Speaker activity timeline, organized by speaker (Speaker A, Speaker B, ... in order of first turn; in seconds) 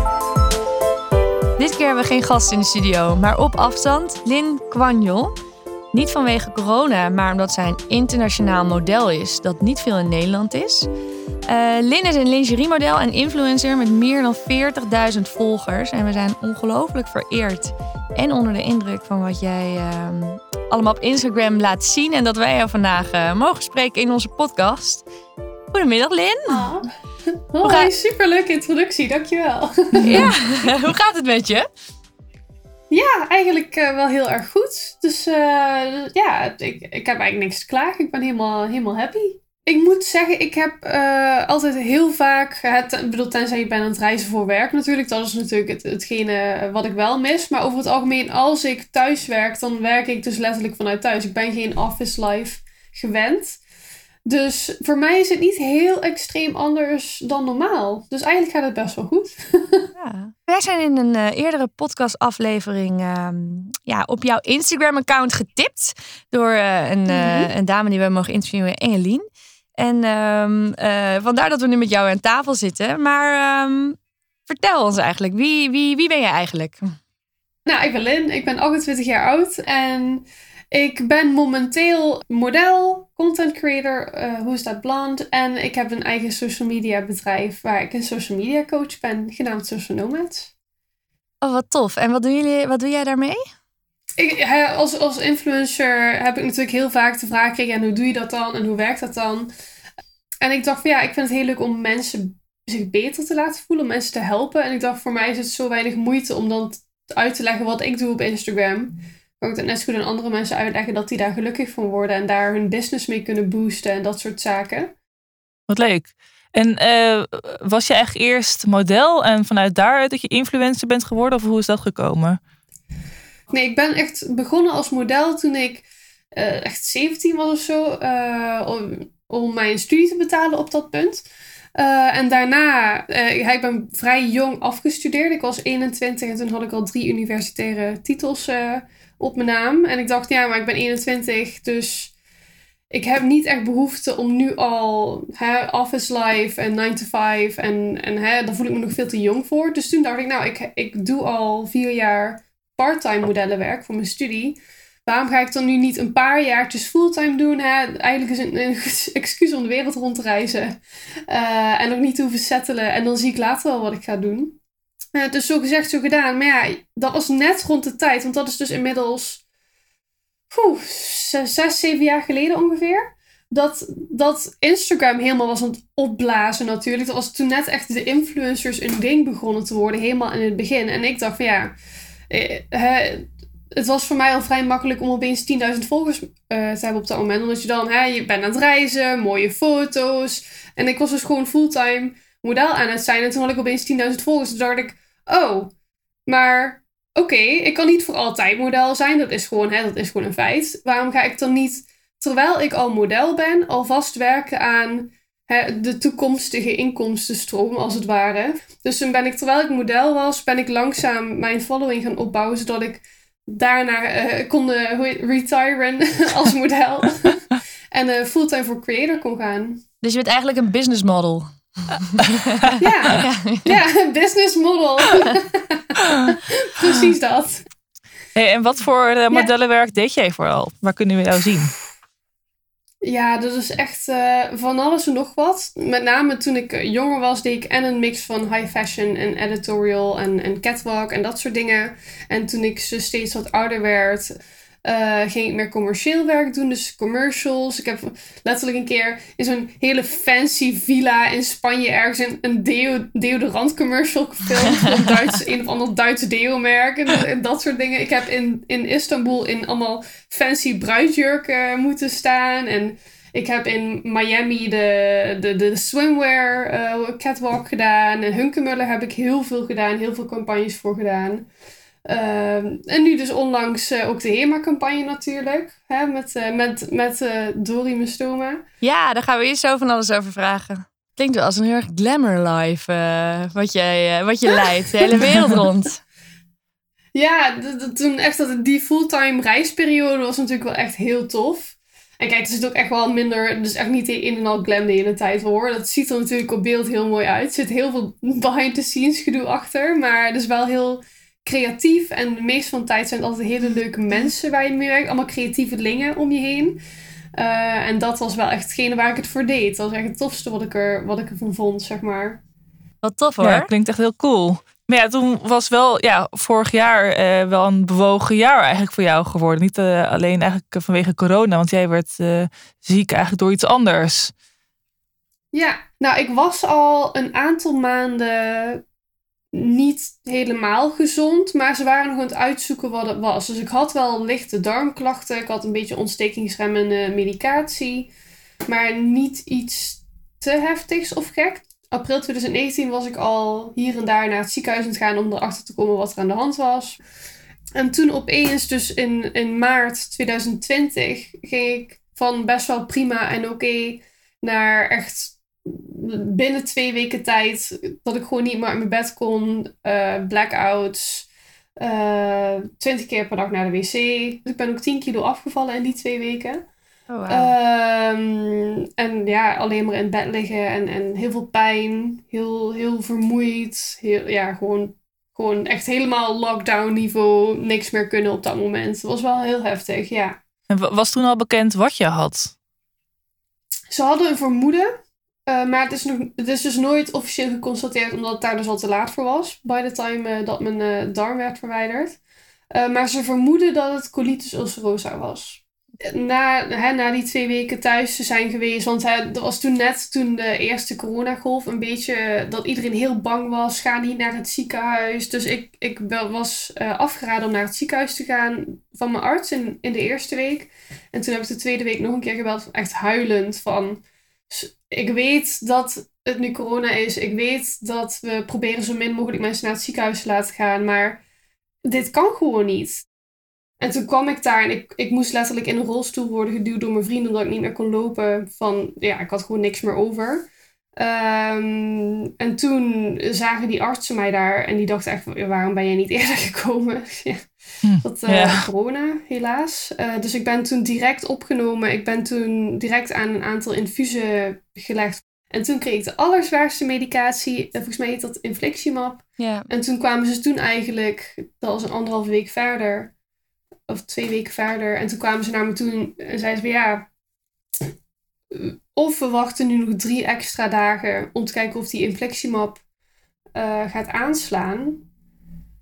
Speaker A: 1.6-5.3, 5.9-10.9, 11.5-25.1, 25.7-26.7, 27.6-27.9, 30.0-31.7, 60.0-69.2, 69.8-74.0, 74.5-76.9, 91.4-93.4, 220.0-223.7, 278.8-286.0, 313.0-313.7, 367.1-367.5, 449.4-449.7
Speaker B: 26.5-30.3, 32.9-53.6, 54.2-59.9, 67.1-67.5, 77.7-90.5, 94.2-99.5, 100.4-114.9, 123.5-131.2, 131.8-142.1, 142.9-160.8, 161.3-164.6, 165.1-169.4, 170.5-181.8, 182.3-195.7, 196.3-219.8, 222.8-227.6, 233.0-244.3, 244.8-271.5, 272.1-278.6, 287.1-306.8, 307.4-312.4, 325.5-328.8, 329.5-338.1, 338.6-347.0, 347.7-361.3, 361.8-366.6, 367.3-380.4, 383.9-384.9, 385.5-392.2, 392.7-421.2, 421.9-423.0, 423.8-437.5, 438.0-453.1, 453.9-457.1, 458.5-462.8, 463.5-465.0
Speaker C: 115.7-122.4, 228.3-231.8, 313.4-324.3, 380.7-382.5, 437.8-438.6